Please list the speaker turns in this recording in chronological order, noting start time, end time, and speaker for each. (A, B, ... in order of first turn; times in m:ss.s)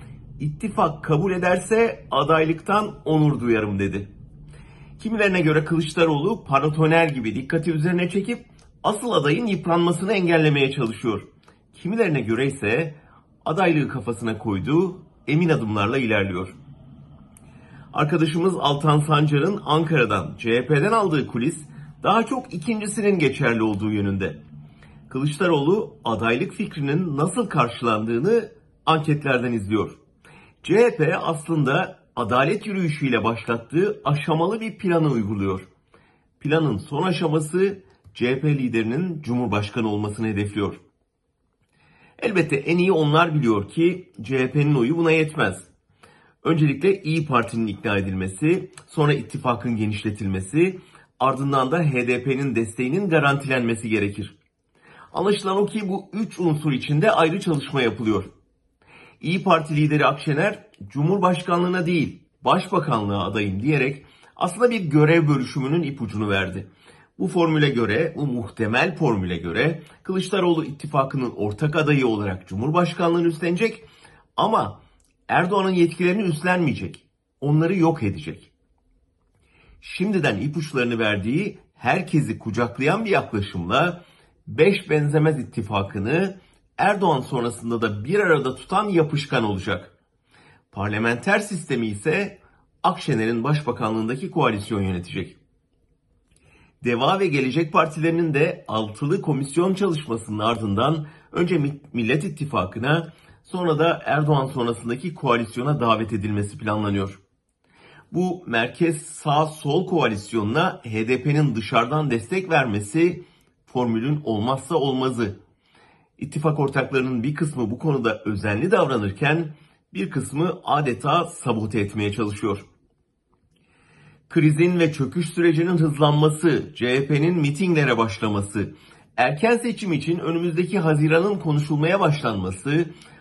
0:00.4-0:04.1 A
0:05.0-0:16.5 A
0:17.9-0:24.4 A
0:25.1-0:30.0 A
0:30.6-0:35.6 A
0:36.4-0:40.8 A
0:42.2-0:45.7 A
0:46.4-0:54.4 A
0:55.1-0:58.3 A
0:59.2-1:13.8 A
1:14.4-1:14.8 A
1:15.3-1:18.5 A
1:19.8-1:29.9 A
1:30.7-1:35.4 A
1:36.8-1:47.2 A
1:48.1-1:55.4 A
1:56.2-2:02.6 A
2:04.3-2:12.9 A